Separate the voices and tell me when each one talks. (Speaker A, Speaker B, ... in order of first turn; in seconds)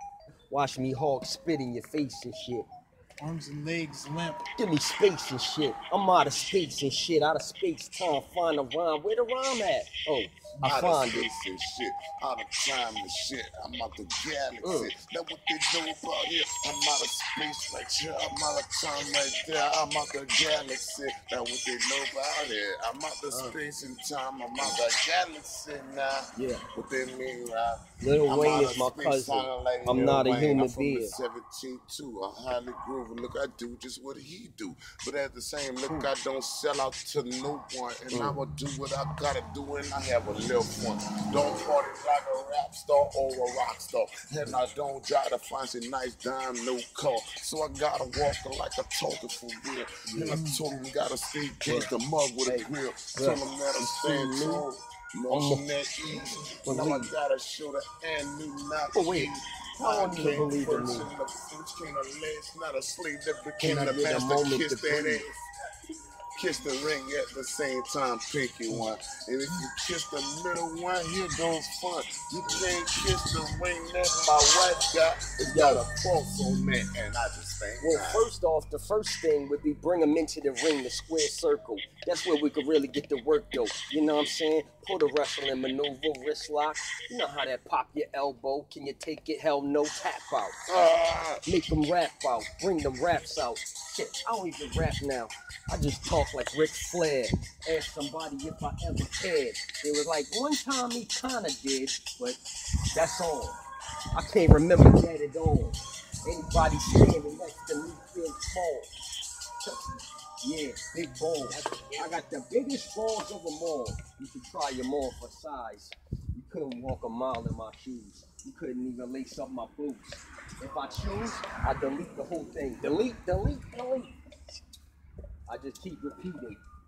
Speaker A: 0.5-2.7, 4.5-11.3, 14.6-14.9, 23.3-23.6, 26.4-26.6, 28.0-31.2, 38.1-38.4, 50.0-50.4, 51.6-51.9, 52.4-54.6, 55.3-55.6, 56.6-57.1, 58.9-61.1, 63.6-65.2, 72.4-72.7, 75.4-75.8, 77.8-90.6, 91.5-102.4, 102.9-103.6, 104.1-108.9, 109.6-124.2, 125.5-126.6
Speaker B: 3.2-4.5, 35.8-36.1, 50.2-50.6
Speaker C: 10.6-65.3, 66.3-78.2, 90.7-91.4